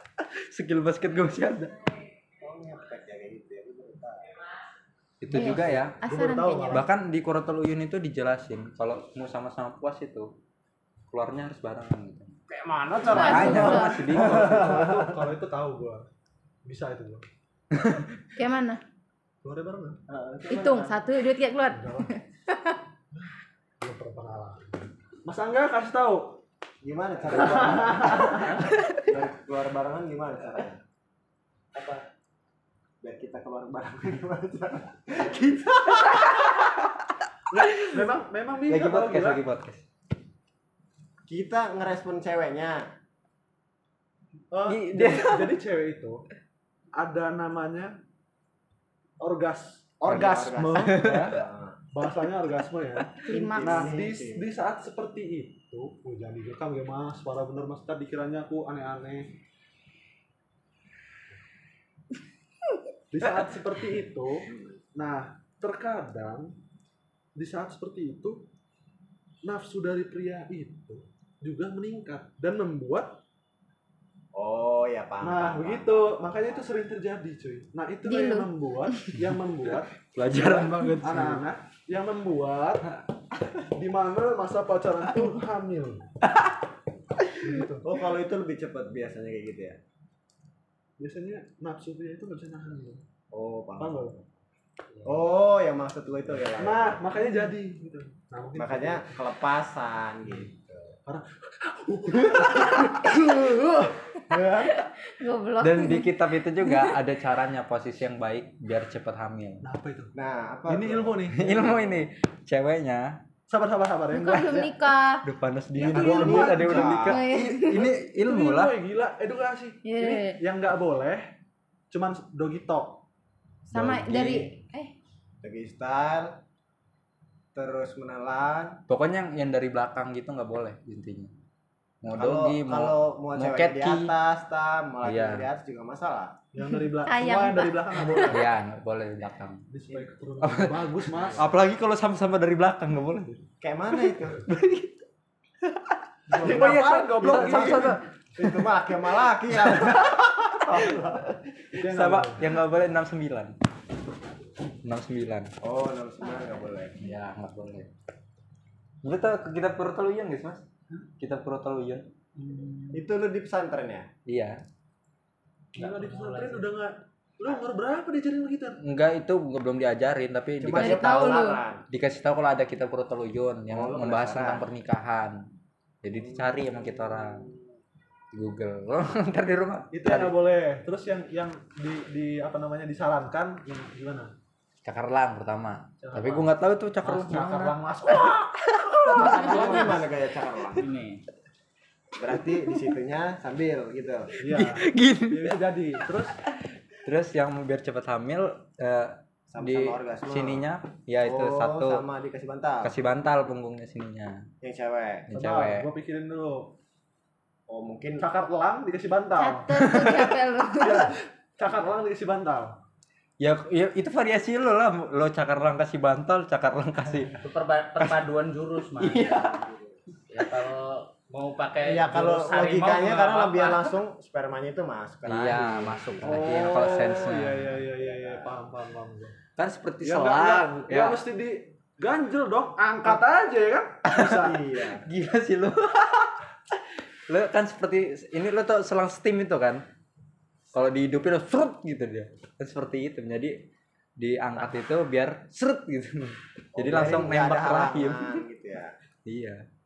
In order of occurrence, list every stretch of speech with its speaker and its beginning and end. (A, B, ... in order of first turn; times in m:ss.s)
0:00.2-0:01.7 A
0:02.4-0:04.3 B
0:05.2-0:06.0 A
0:05.3-0:06.8 C
0:05.4-0:06.8 D
0:06.7-0:10.3 A
0:11.1-0:12.4 A
0:12.5-0:15.3 B
0:13.0-0:14.0 C
0:13.1-0:14.8 A
0:13.3-0:16.1 D
0:16.6-0:17.2 D
0:17.7-0:18.3 A
0:18.4-0:18.8 C
0:19.4-0:20.0 D
0:20.1-0:21.0 B
0:20.5-0:22.8 C
0:21.7-0:22.1 D
0:23.1-0:26.4 D
0:26.8-0:30.8 B
0:27.3-0:28.6 D
0:31.7-0:32.0 D
0:33.0-0:36.3 B
0:36.0-0:36.6 A
0:37.5-0:39.4 D
0:37.6-0:38.0 A
0:38.6-0:39.8 A
0:41.3-0:42.8 B
0:44.5-0:46.2 D
0:44.7-0:45.6 A
0:46.9-0:48.0 D
0:49.2-0:51.4 D
0:50.0-0:51.8 B
0:50.1-0:51.4 A
0:51.9-0:59.3 D
0:53.1-0:53.9 C
0:53.3-0:54.5 B
1:03.1-1:06.5 D
1:04.5-1:04.8 B
1:07.4-1:08.4 D
1:09.4-1:13.2 D
1:14.3-1:16.0 B
1:15.2-1:22.8 D
1:18.0-1:19.2 C
1:20.1-1:21.4 A
1:23.7-1:26.1 D
1:25.2-1:25.4 C
1:26.2-1:26.5 A
1:27.4-1:28.0 D
1:27.8-1:29.8 B
1:31.0-1:33.0 D
1:33.3-1:34.0 B
1:33.8-1:34.2 D
1:35.0-1:37.1 B
1:36.6-1:39.1 D
1:38.5-1:41.0 B
1:41.0-1:44.8 D
1:44.7-1:47.0 C
1:45.6-1:49.6 A
1:49.6-1:50.1 D
1:50.1-1:52.0 B
1:50.7-1:51.5 D
1:51.3-1:53.2 A
1:53.5-1:54.9 D
1:54.1-1:55.2 C
1:55.2-1:58.7 A
1:55.8-1:57.1 B
1:55.8-1:57.3 D
1:57.1-1:57.9 C
1:58.1-2:01.3 D
1:59.8-2:00.4 C
2:01.9-2:03.0 D
2:03.7-2:04.9 C
2:03.7-2:04.5 A
2:03.8-2:04.3 B
2:05.4-2:06.4 B
2:07.5-2:08.8 B
2:08.9-2:11.3 A
2:12.0-2:14.1 A
2:12.1-2:16.3 B
2:15.0-2:15.4 A
2:16.5-2:18.5 D
2:16.9-2:18.4 C
2:18.2-2:19.7 A
2:19.7-2:21.5 D
2:20.4-2:23.4 A
2:23.6-2:24.4 B
2:24.0-2:25.0 A
2:25.6-2:28.7 A
2:26.3-2:28.0 D
2:26.4-2:31.1 B
2:29.6-2:33.5 A
2:31.7-2:32.5 D
2:34.8-2:35.5 A
2:35.6-2:37.0 B
2:37.0-2:37.9 A
2:39.0-2:40.6 A
2:41.2-2:42.0 A
2:42.4-2:43.0 D
2:42.9-2:44.1 B
2:44.3-2:44.6 A
2:45.7-2:48.8 D
2:45.8-2:46.7 E
2:48.8-2:55.4 A
2:50.6-2:51.8 B
2:50.7-2:51.6 C
2:53.7-2:54.7 B
2:56.0-2:57.5 A
2:56.1-2:57.6 B
2:58.3-3:00.3 A
2:59.9-3:04.3 D
3:04.8-3:10.0 A
3:06.0-3:08.5 D
3:09.1-3:10.0 E
3:09.1-3:10.9 B
3:10.8-3:11.2 E
3:12.2-3:14.3 B
3:14.4-3:16.4 D
3:14.4-3:15.6 A
3:17.0-3:22.0 A
3:19.5-3:20.7 B
3:21.2-3:22.9 B
3:22.8-3:24.4 A
3:24.6-3:25.3 B
3:25.3-3:25.9 A
3:25.3-3:26.7 D
3:27.7-3:28.2 B
3:28.2-3:30.1 D
3:29.4-3:31.1 C
3:29.8-3:30.3 A
3:30.8-3:32.8 D
3:33.4-3:37.4 A
3:37.4-3:39.3 E
3:39.0-3:39.6 A
3:39.2-3:40.0 B
3:40.3-3:43.9 E
3:41.8-3:46.5 B
3:45.3-3:47.7 A
3:46.2-3:49.4 D
3:47.8-3:48.6 B
3:49.6-3:51.2 A
3:50.0-3:54.6 D
3:54.0-3:56.4 A
3:54.4-3:55.0 B
3:57.3-3:59.8 A
4:00.7-4:03.6 A
4:04.2-4:08.4 A
4:06.8-4:08.9 B
4:09.2-4:09.6 A